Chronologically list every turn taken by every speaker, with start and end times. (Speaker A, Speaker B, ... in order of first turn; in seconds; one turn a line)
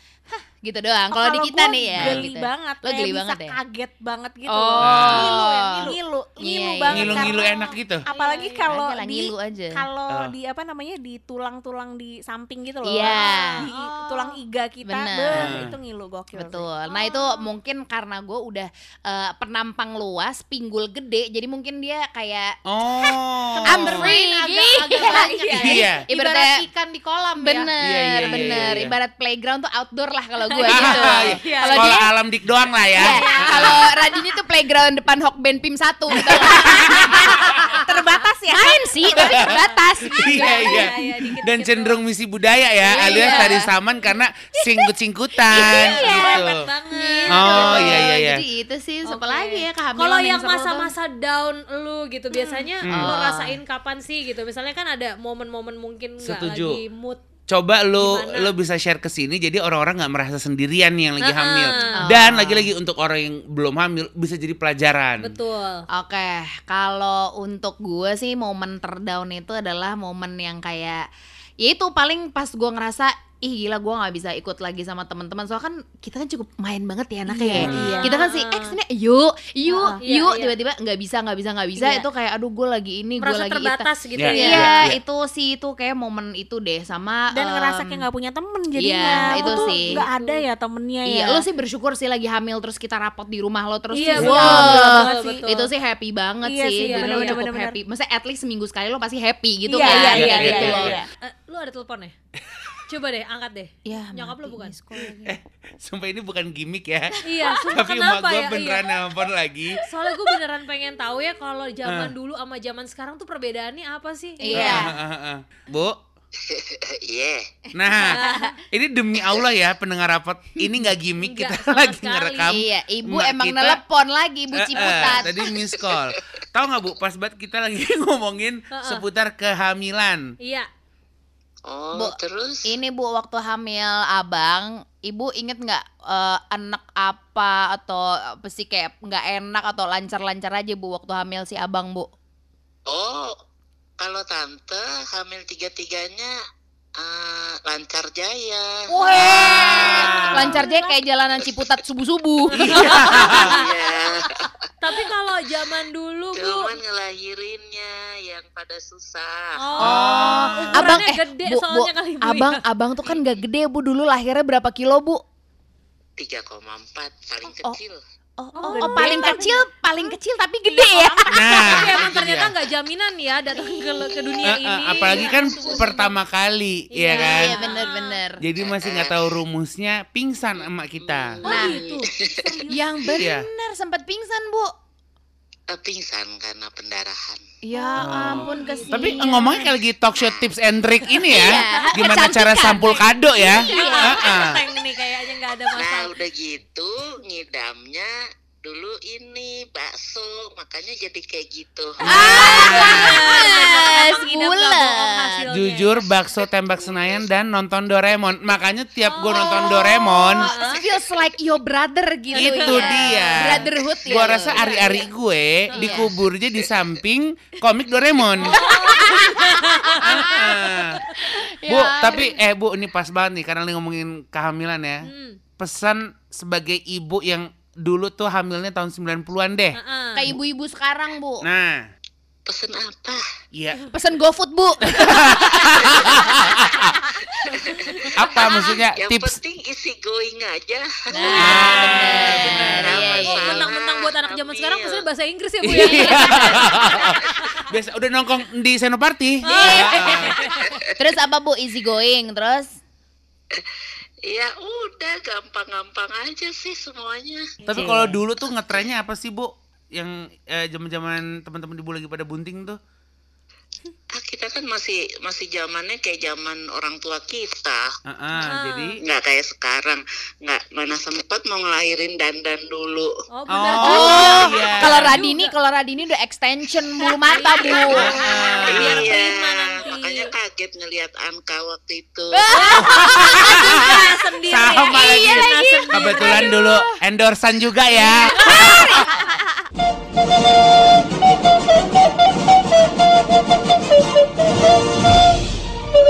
Speaker A: 0.3-3.6
Speaker B: 1.1-16.6
Speaker C: 2.0-2.3
Speaker A: 4.5-7.4
Speaker C: 4.8-5.4
Speaker C: 6.9-8.1
Speaker D: 7.4-8.7
Speaker A: 8.7-9.8
Speaker A: 12.8-13.7
Speaker D: 13.6-14.0
Speaker A: 14.8-15.6
Speaker C: 15.3-15.7
Speaker A: 16.4-22.5
Speaker D: 16.9-17.3
Speaker C: 22.6-24.1
Speaker B: 23.6-26.1
Speaker A: 23.7-32.1
Speaker D: 24.8-26.6
Speaker C: 25.6-26.1
Speaker D: 27.4-27.6
Speaker C: 27.8-28.9
Speaker C: 30.7-33.9
Speaker D: 30.7-31.9
Speaker B: 31.4-31.8
Speaker A: 32.9-37.9
Speaker D: 33.0-33.7
Speaker B: 33.0-34.1
Speaker C: 36.1-37.8
Speaker B: 36.5-39.4
Speaker A: 38.5-40.9
Speaker C: 39.2-39.5
Speaker D: 39.4-42.0
Speaker C: 40.1-46.6
Speaker A: 42.9-43.7
Speaker D: 43.0-43.4
Speaker A: 45.5-50.9
Speaker D: 45.6-48.1
Speaker C: 47.3-48.4
Speaker D: 49.0-57.2
Speaker C: 52.9-53.1
Speaker A: 52.9-53.6
Speaker C: 56.2-56.8
Speaker C: 57.5-65.3
Speaker D: 58.0-58.5
Speaker D: 61.2-62.0
Speaker A: 62.0-62.7
Speaker D: 65.2-65.8
Speaker A: 65.9-71.0
Speaker A: 71.6-88.0
Speaker B: 77.3-78.2
Speaker C: 77.5-78.0
Speaker D: 77.7-78.7
Speaker B: 79.7-80.0
Speaker D: 80.0-80.5
Speaker B: 81.8-82.0
Speaker D: 83.2-84.9
Speaker C: 84.2-85.0
Speaker B: 87.3-91.4
Speaker A: 88.8-90.0
Speaker D: 89.2-90.4
Speaker A: 91.0-101.0
Speaker D: 93.9-95.7
Speaker B: 94.0-95.5
Speaker C: 94.2-95.0
Speaker B: 96.4-97.8
Speaker D: 96.8-97.4
Speaker B: 99.7-101.1
Speaker D: 99.8-102.1
Speaker C: 100.1-101.0
Speaker C: 102.5-102.7
Speaker D: 102.9-104.8
Speaker A: 103.8-105.3
Speaker C: 105.0-109.8
Speaker D: 107.2-108.9
Speaker D: 109.9-114.8
Speaker C: 111.8-112.1
Speaker A: 114.4-114.9
Speaker C: 114.5-116.0
Speaker E: 116.4-117.5
Speaker C: 117.7-123.8
Speaker D: 118.1-118.6
Speaker B: 118.2-118.4
Speaker D: 121.2-122.6
Speaker A: 122.5-125.4
Speaker C: 124.5-130.3
Speaker E: 125.0-126.2
Speaker D: 128.7-129.0
Speaker D: 130.4-130.7
Speaker E: 131.7-132.7
Speaker A: 131.9-142.1
Speaker E: 142.9-143.3
Speaker E: 144.0-146.3
Speaker E: 147.0-148.8
Speaker A: 148.9-153.6
Speaker D: 149.1-150.9
Speaker C: 149.1-150.6
Speaker E: 149.4-150.2
Speaker C: 152.6-153.5
Speaker D: 152.7-153.7
Speaker E: 153.2-155.0
Speaker D: 154.8-156.8
Speaker E: 156.3-159.8
Speaker D: 159.6-163.2
Speaker C: 159.8-161.0
Speaker A: 159.8-165.2
Speaker E: 166.2-168.0
Speaker A: 167.5-167.8
Speaker A: 168.4-171.7
Speaker D: 168.6-169.6
Speaker B: 168.6-169.6
Speaker B: 170.7-171.8
Speaker C: 171.3-172.5
Speaker D: 171.4-176.2
Speaker A: 173.6-174.3
Speaker C: 174.4-177.6
Speaker D: 176.9-178.2
Speaker A: 177.1-178.4
Speaker C: 178.4-181.4
Speaker E: 178.6-179.3
Speaker E: 181.0-182.5
Speaker D: 181.4-182.7
Speaker A: 181.4-181.8
Speaker B: 182.3-182.8
Speaker A: 182.7-184.7
Speaker C: 183.1-183.5
Speaker E: 185.7-187.4
Speaker A: 187.6-189.7
Speaker D: 187.7-189.5
Speaker C: 188.0-194.6
Speaker E: 190.1-190.5
Speaker D: 191.2-192.1
Speaker A: 191.3-194.2
Speaker D: 193.7-196.2
Speaker E: 195.7-198.1
Speaker E: 198.6-202.8
Speaker C: 202.1-203.3
Speaker A: 202.1-205.4
Speaker D: 202.1-205.9
Speaker C: 205.5-210.5
Speaker E: 206.8-207.2
Speaker D: 209.1-210.8
Speaker A: 209.3-214.9
Speaker D: 212.3-213.6
Speaker C: 212.3-218.6
Speaker D: 214.3-215.0
Speaker D: 215.7-216.1
Speaker A: 215.8-216.1
Speaker D: 218.4-220.6
Speaker A: 218.4-222.4
Speaker C: 220.0-221.0
Speaker C: 221.7-229.8
Speaker D: 225.0-225.4
Speaker D: 229.7-230.2
Speaker A: 230.1-231.4
Speaker C: 231.4-231.9
Speaker E: 232.4-233.2
Speaker C: 233.5-233.8
Speaker A: 233.9-238.1
Speaker C: 234.9-236.9
Speaker E: 237.5-245.1
Speaker C: 238.2-239.3
Speaker A: 241.1-243.6
Speaker D: 241.3-247.6
Speaker C: 241.4-243.3
Speaker C: 245.6-250.5
Speaker E: 246.0-247.4
Speaker D: 249.4-250.6
Speaker A: 249.5-252.7
Speaker E: 250.3-250.9
Speaker E: 254.2-257.6
Speaker C: 257.6-262.8
Speaker A: 257.7-258.2
Speaker E: 264.1-267.8
Speaker C: 268.1-269.0
Speaker D: 268.4-268.9
Speaker E: 269.0-273.1
Speaker D: 273.3-275.5
Speaker C: 273.5-275.2
Speaker A: 273.8-278.9
Speaker D: 277.2-280.3
Speaker E: 277.7-282.5
Speaker C: 277.9-279.1
Speaker A: 282.3-284.1
Speaker D: 282.5-286.6
Speaker C: 282.8-289.1
Speaker A: 284.9-286.9
Speaker A: 288.0-289.3
Speaker D: 288.4-289.0